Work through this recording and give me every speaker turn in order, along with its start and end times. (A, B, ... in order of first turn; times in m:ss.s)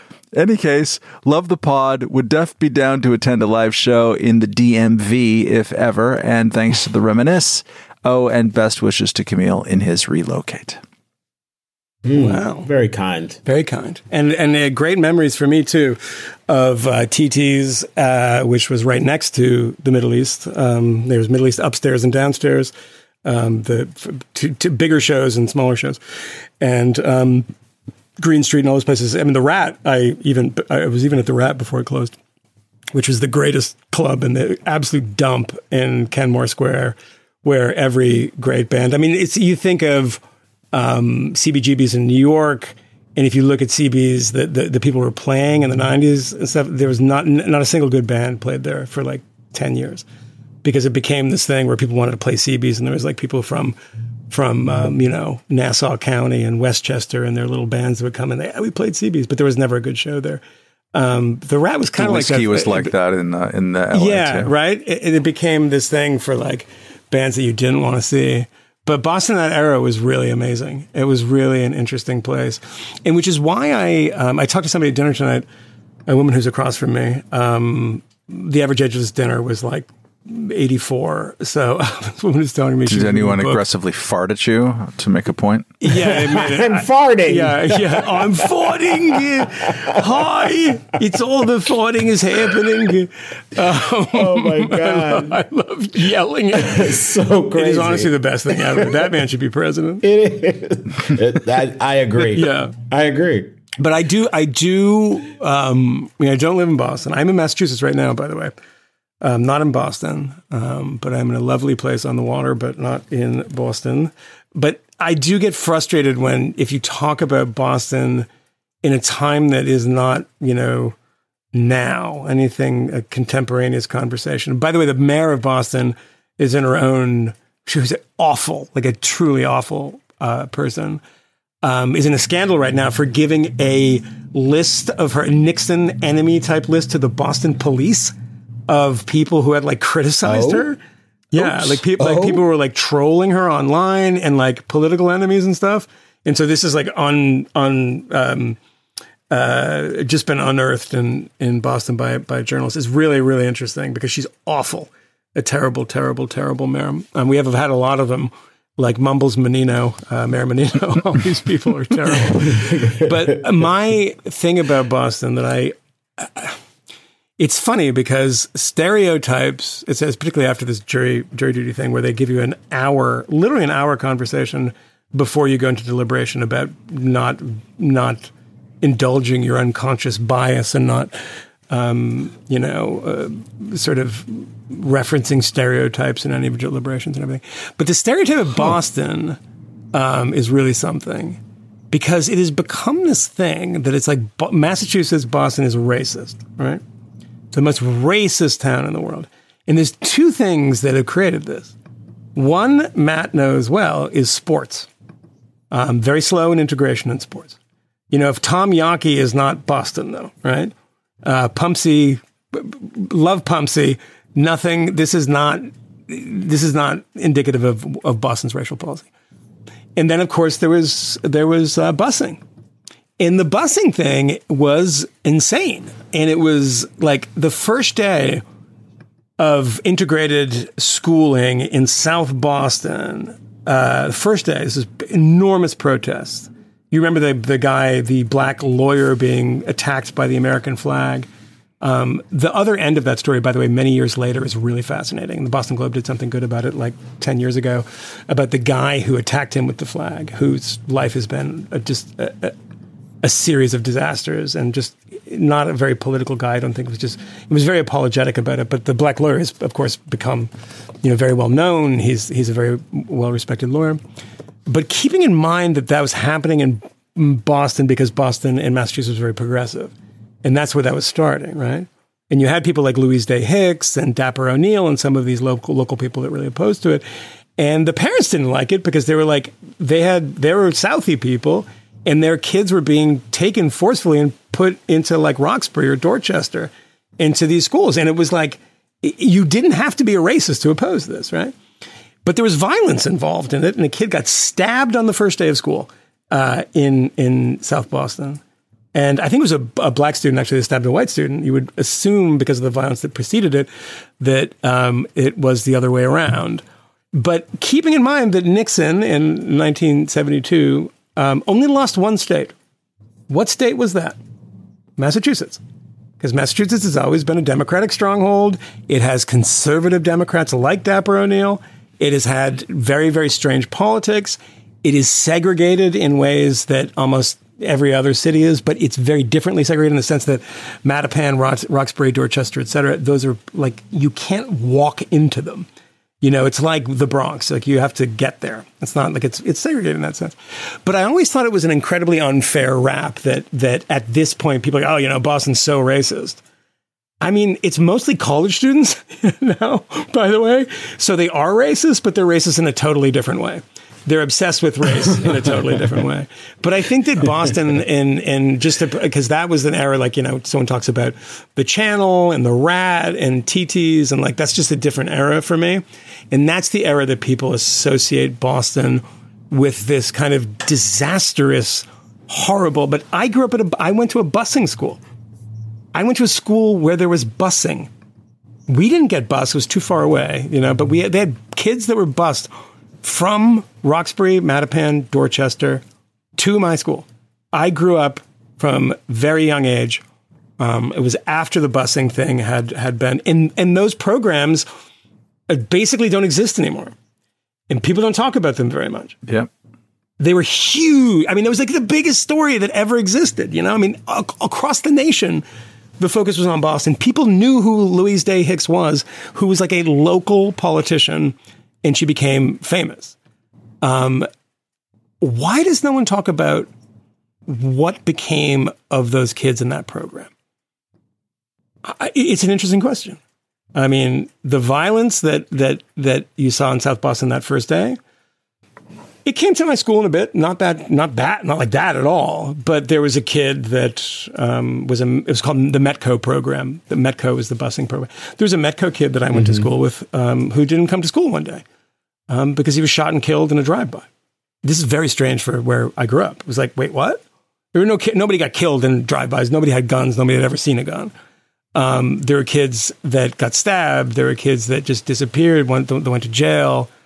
0:00.3-0:10.8 A
0:12.0-0:13.4 B
0:12.1-0:12.7 C
0:13.4-0:22.7 C
0:23.2-0:26.0 C
0:26.6-0:27.5 C
0:28.2-0:32.2 C
0:32.9-0:40.2 C
0:40.7-0:50.1 C
0:50.6-0:53.8 C
0:54.3-1:00.4 C
1:00.9-1:02.9 C
1:02.0-1:04.5 A
1:03.9-1:15.5 C
1:16.1-1:23.6 C
1:22.9-1:25.7 A
1:25.8-1:40.0 C
1:25.9-1:30.2 B
1:34.1-1:35.4 B
1:36.5-1:39.0 B
1:40.0-1:43.6 B
1:42.4-1:42.7 C
1:43.8-1:48.5 C
1:49.2-1:58.3 C
1:58.8-2:01.0 C
2:01.5-2:11.0 C
2:11.6-2:18.2 C
2:18.7-2:20.8 C
2:20.2-2:20.7 B
2:21.3-2:28.6 C
2:21.4-2:22.4 B
2:29.3-2:46.6 C
2:42.6-2:43.0 B
2:47.4-3:01.2 C
3:01.7-3:09.4 C
3:09.9-3:11.4 C
3:11.9-3:16.8 C
3:17.5-3:21.8 C
3:22.4-3:24.9 C
3:25.7-3:27.6 C
3:28.1-3:30.7 C
3:31.2-3:39.1 C
3:40.0-3:42.4 C
3:43.2-3:48.4 C
3:49.4-4:01.3 C
4:01.8-4:12.6 C
4:13.2-4:20.5 C
4:21.0-4:24.0 C
4:24.7-4:29.9 C
4:30.4-4:37.0 C
4:37.6-4:51.6 C
4:52.2-4:58.4 C
4:58.9-5:03.7 C
5:04.2-5:12.6 C
5:13.3-5:14.2 C
5:15.0-5:15.6 C
5:16.2-5:35.7 C
5:36.2-5:40.3 C
5:40.8-5:46.4 C
5:47.2-6:15.0 C
6:15.9-6:17.9 C
6:18.7-6:25.8 C
6:26.4-6:30.0 C
6:30.6-6:34.7 C
6:35.5-6:37.0 C
6:37.7-6:39.2 C
6:40.2-6:45.4 C
6:46.0-6:53.2 C
6:53.8-6:54.3 C
6:55.2-6:56.7 C
6:57.5-7:00.3 C
7:01.8-7:03.2 C
7:03.8-7:08.0 C
7:09.2-7:21.6 C
7:19.3-7:19.7 B
7:22.3-7:24.1 C
7:24.6-7:27.2 C
7:27.7-7:31.1 C
7:31.8-7:36.9 C